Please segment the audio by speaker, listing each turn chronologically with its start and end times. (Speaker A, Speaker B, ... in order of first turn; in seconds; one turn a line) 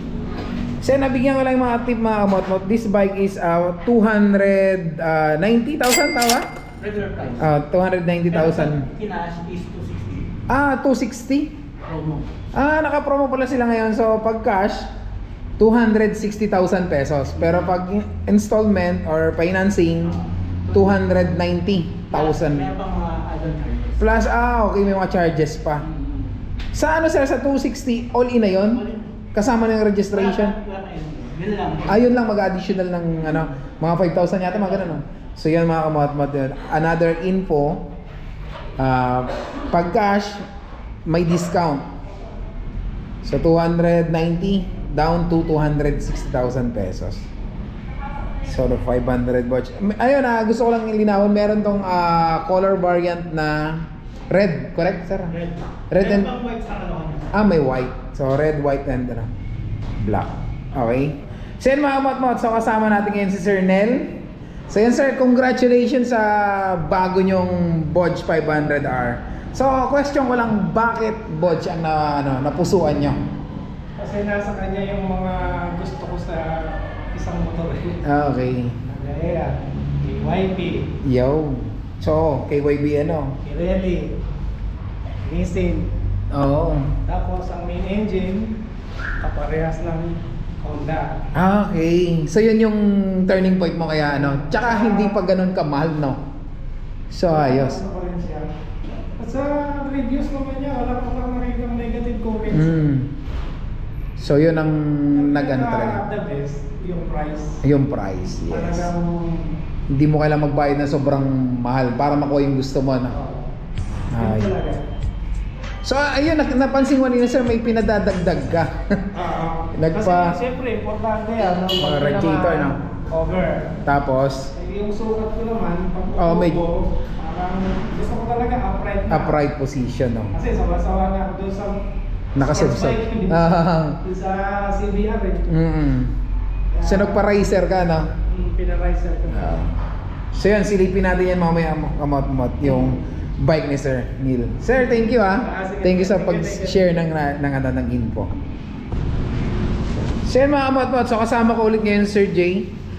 Speaker A: 0.8-6.5
Speaker B: 6.8-7.5
Speaker A: 7.4-8.8
Speaker B: 8.3-10.3
Speaker A: 10.5-11.6
Speaker B: 11.8-12.3
Speaker A: 12.5-14.9
Speaker A: 15.6-20.2
Speaker B: 20.0-20.9
Speaker A: 20.7-22.7
Speaker B: 22.1-24.0
Speaker A: 24.0-25.9
Speaker B: 25.9-26.3
Speaker A: 26.7-28.8
Speaker B: 28.6-29.1
Speaker A: 29.3-30.5
Speaker B: 30.1-32.1
Speaker A: 31.9-37.9
Speaker B: 34.7-34.9
Speaker A: 38.8-40.4
Speaker A: 41.1-41.8
Speaker A: 43.2-47.3
Speaker A: 48.4-55.3
Speaker B: 55.3-57.4
Speaker A: 55.9-56.3
Speaker A: 57.3-59.3
Speaker A: 60.0-64.1
Speaker A: 64.7-73.2
Speaker C: 74.0-78.0
Speaker A: 78.0-78.8
Speaker C: 78.8-80.9
Speaker A: 81.0-83.4
Speaker C: 83.4-84.2
Speaker C: 85.2-85.9
Speaker A: 86.3-86.9
Speaker C: 87.0-88.6
Speaker C: 89.2-91.1
Speaker A: 91.3-96.2
Speaker C: 94.2-95.2
Speaker A: 97.1-97.8
Speaker C: 97.3-98.5
Speaker C: 99.1-102.8
Speaker A: 102.5-103.1
Speaker A: 104.2-106.0
Speaker C: 105.1-107.6
Speaker A: 107.6-108.9
Speaker C: 108.5-109.6
Speaker A: 109.9-113.2
Speaker C: 113.2-113.5
Speaker A: 114.1-114.5
Speaker C: 114.2-114.8
Speaker A: 115.8-119.1
Speaker C: 119.1-123.8
Speaker A: 119.7-120.4
Speaker A: 121.4-122.8
Speaker A: 123.8-124.5
Speaker C: 124.5-129.4
Speaker A: 126.1-126.6
Speaker A: 129.1-130.3
Speaker C: 130.3-131.8
Speaker A: 132.3-134.0
Speaker C: 132.4-135.4
Speaker A: 135.5-136.1
Speaker C: 136.7-137.2
Speaker A: 136.8-138.1
Speaker C: 138.3-139.6
Speaker A: 139.3-139.7
Speaker A: 140.3-148.3
Speaker C: 144.9-146.9
Speaker A: 150.2-152.7